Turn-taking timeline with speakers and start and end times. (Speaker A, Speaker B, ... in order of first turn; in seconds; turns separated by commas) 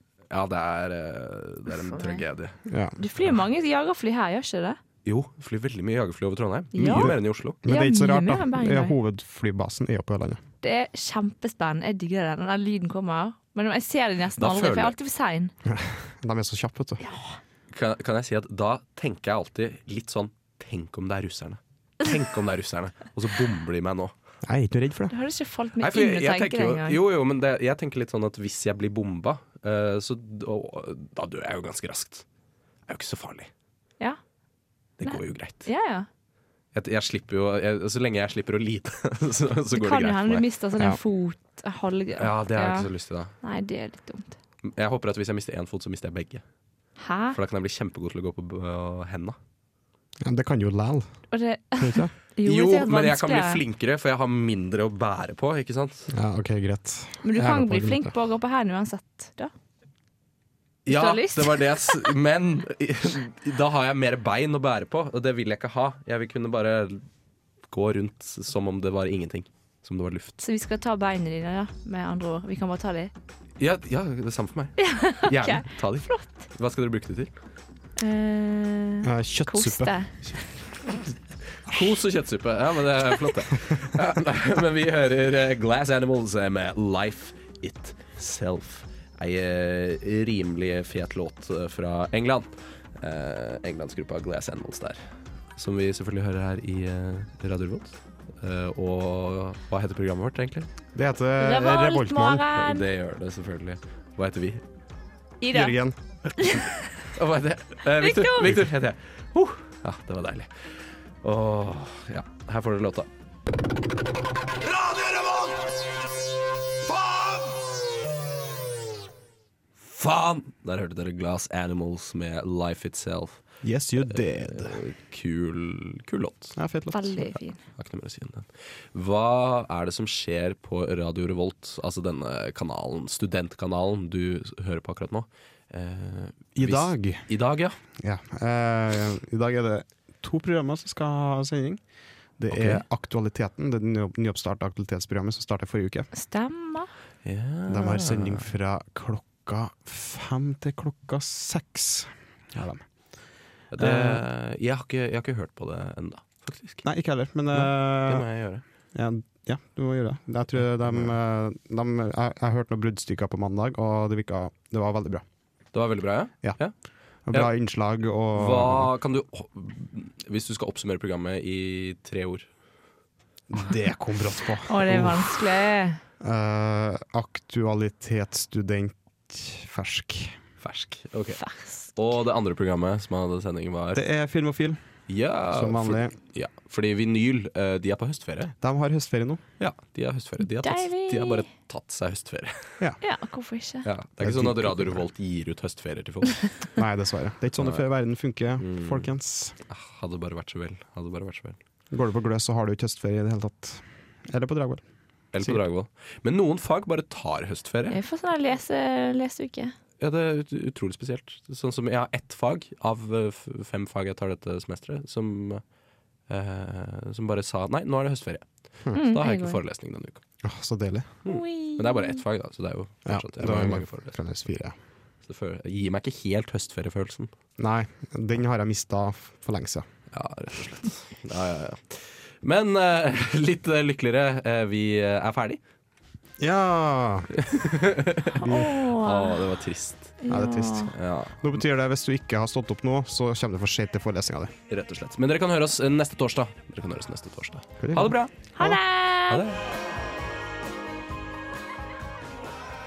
Speaker A: 0.3-2.5, Speaker B: 1.8-2.2, Speaker C: 2.7-3.0, Speaker B: 3.0-4.8, Speaker A: 5.0-7.6, Speaker B: 6.7-8.9, Speaker C: 6.9-10.4, Speaker B: 10.6-15.5, Speaker A: 14.4-14.9, Speaker C: 15.6-17.0, Speaker B: 17.0-17.4, Speaker A: 17.7-24.1, Speaker C: 24.4-25.1, Speaker B: 25.1-27.0, Speaker A: 25.8-32.2, Speaker A: 32.9-33.5, Speaker A: 35.0-35.7, Speaker B: 35.0-36.1, Speaker A: 36.7-40.4, Speaker B: 39.7-42.9, Speaker A: 42.2-43.3, Speaker B: 43.4-44.4, Speaker A: 44.6-46.4, Speaker B: 47.0-47.4, Speaker A: 47.3-49.4, Speaker C: 50.2-51.1, Speaker B: 51.3-53.6, Speaker C: 51.8-52.1, Speaker A: 52.4-56.1, Speaker C: 56.1-58.1, Speaker B: 57.2-59.5, Speaker A: 60.8-67.0, Speaker B: 60.9-62.1, Speaker A: 67.7-70.4, Speaker B: 70.4-73.1, Speaker A: 73.6-77.3, Speaker B: 74.8-76.4, Speaker B: 78.0-80.4, Speaker C: 79.0-80.0, Speaker A: 81.6-95.0, Speaker A: 95.5-100.7, Speaker C: 100.9-102.4, Speaker B: 101.4-102.8, Speaker A: 102.5-104.6, Speaker B: 105.4-105.8, Speaker C: 105.5-106.0, Speaker B: 106.4-106.8, Speaker A: 106.4-110.5, Speaker B: 108.0-108.6, Speaker A: 111.2-113.1, Speaker A: 114.7-115.7, Speaker A: 116.9-117.6, Speaker A: 119.8-123.4, Speaker C: 123.6-124.8, Speaker A: 124.1-126.6, Speaker C: 126.6-127.2, Speaker B: 126.9-127.6, Speaker A: 127.7-137.8, Speaker C: 136.6-137.3, Speaker C: 138.0-141.8, Speaker C: 142.4-146.1, Speaker A: 142.5-142.8, Speaker B: 146.1-146.9, Speaker A: 147.2-148.4, Speaker C: 147.7-152.8, Speaker A: 153.7-156.8, Speaker C: 153.8-154.2, Speaker C: 156.8-158.3, Speaker A: 157.5-158.6, Speaker C: 158.9-165.2, Speaker A: 160.8-161.1, Speaker A: 165.7-166.7, Speaker C: 167.3-168.9, Speaker A: 168.3-172.4, Speaker C: 173.5-175.4, Speaker B: 174.7-176.0, Speaker C: 176.2-180.3, Speaker A: 180.6-181.4, Speaker B: 181.4-181.9, Speaker A: 181.9-184.0, Speaker C: 183.9-184.8, Speaker A: 185.1-188.5, Speaker C: 185.5-186.1, Speaker C: 188.6-189.4, Speaker A: 189.6-192.8, Speaker B: 190.4-191.5, Speaker B: 193.0-193.9, Speaker A: 193.8-196.5, Speaker C: 194.2-195.1, Speaker C: 196.8-199.6, Speaker A: 198.6-199.1, Speaker A: 199.7-201.6, Speaker C: 201.9-204.8, Speaker A: 205.3-208.0, Speaker B: 207.9-209.7, Speaker A: 210.0-215.6, Speaker A: 216.3-220.2, Speaker B: 218.9-219.6, Speaker C: 220.4-221.1, Speaker A: 221.2-224.2, Speaker B: 221.2-222.2, Speaker C: 223.1-224.7, Speaker A: 225.2-227.3, Speaker C: 227.6-229.9, Speaker A: 230.1-235.6, Speaker C: 236.4-237.4, Speaker A: 237.4-240.2, Speaker B: 238.4-239.4, Speaker B: 240.2-240.9, Speaker C: 240.3-244.5, Speaker A: 240.9-241.6, Speaker A: 244.7-248.3, Speaker C: 247.8-248.8, Speaker B: 248.6-249.4, Speaker A: 249.3-249.6